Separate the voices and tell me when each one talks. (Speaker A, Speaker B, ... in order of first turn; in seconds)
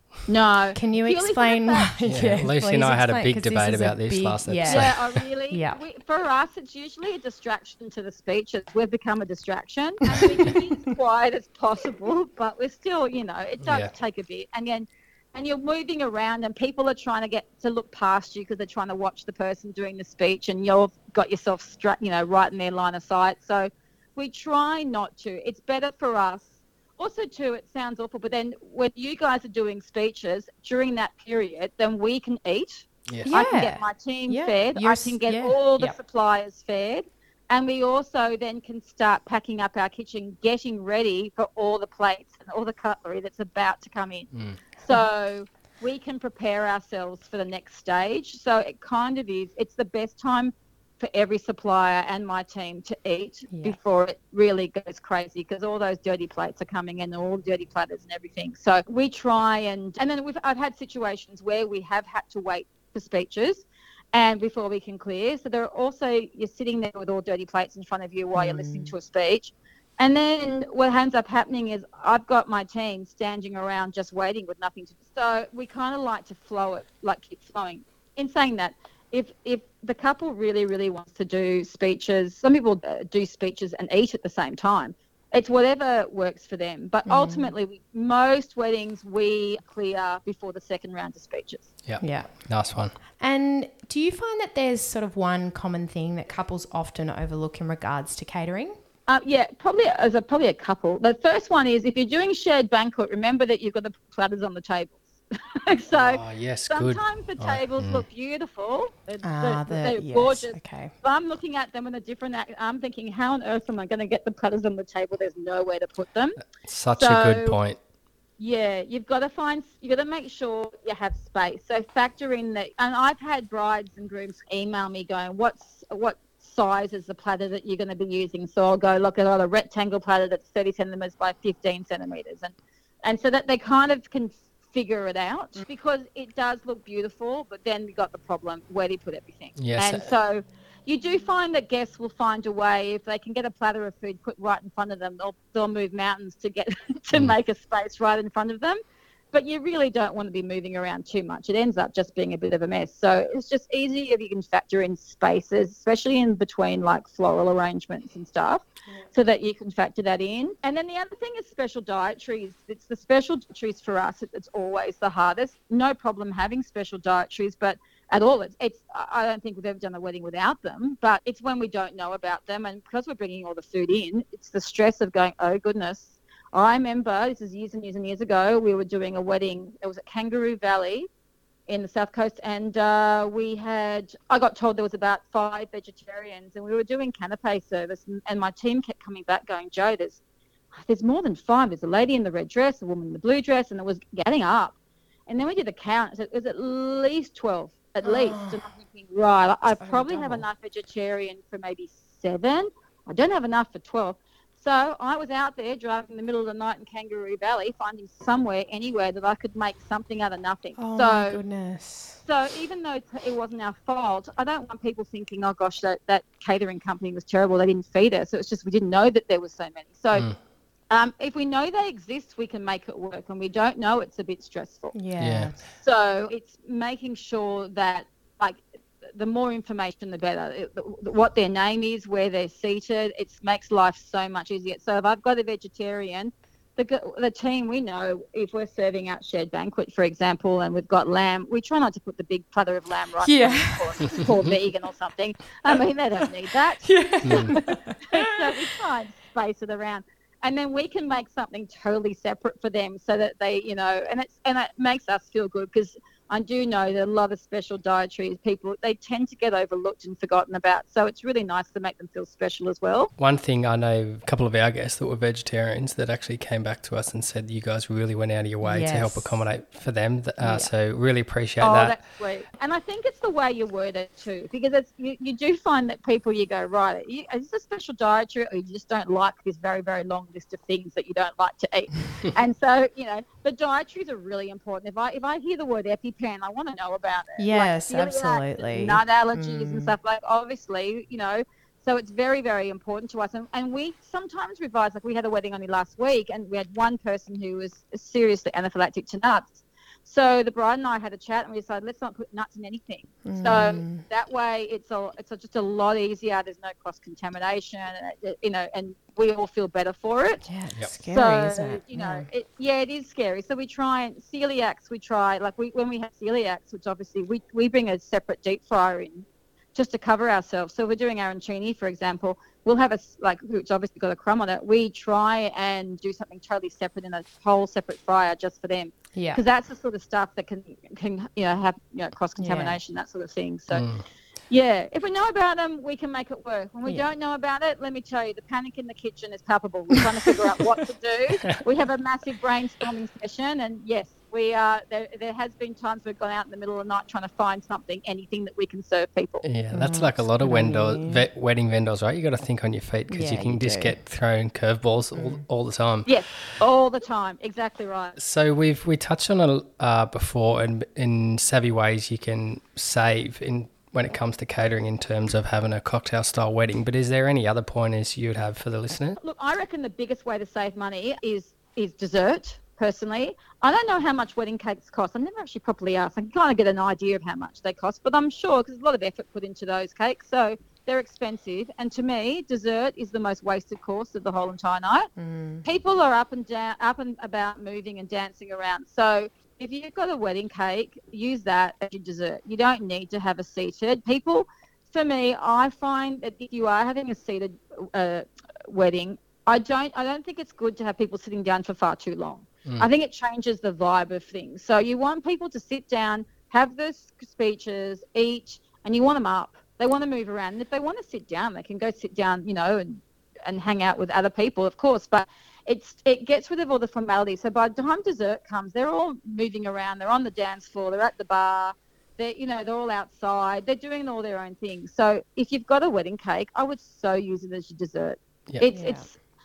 Speaker A: 0.2-1.9, 4.7-91.7, 99.1-105.1, 105.6-116.4, 116.9-117.6, 118.4-148.8, 149.3-181.1, 181.7-190.2, 190.7-194.7, 195.3-211.4, 212.2-220.3, 220.9-224.9, 225.7-228.6, 229.1-263.1, 271.6-310.4, 311.0-333.9, 334.5-349.4, 356.1-358.1, 369.2-385.1, 385.6-429.2
Speaker B: 0.7-4.9, 5.5-5.8, 10.2-10.6, 33.2-36.0, 53.5-53.8, 68.3-68.9, 87.0-87.5, 92.0-92.3, 93.2-98.8, 109.2-110.9, 198.0-198.6, 199.8-200.4, 210.8-212.2, 224.9-225.6, 243.2-244.3, 246.8-248.7, 268.6-269.4, 270.4-270.7, 287.4-289.9, 303.2-304.0, 310.4-312.3, 329.1-329.4, 332.4-332.8, 349.7-351.2, 353.1-354.0, 355.1-355.4, 385.2-385.6, 428.7-429.0
Speaker C: 2.1-5.2, 13.6-13.9, 44.3-44.6, 91.8-93.0, 105.9-108.0, 116.5-117.8, 139.6-140.1, 225.2-225.5, 247.2-247.5, 263.2-272.0, 333.7-334.0, 349.4-356.1, 358.2-369.2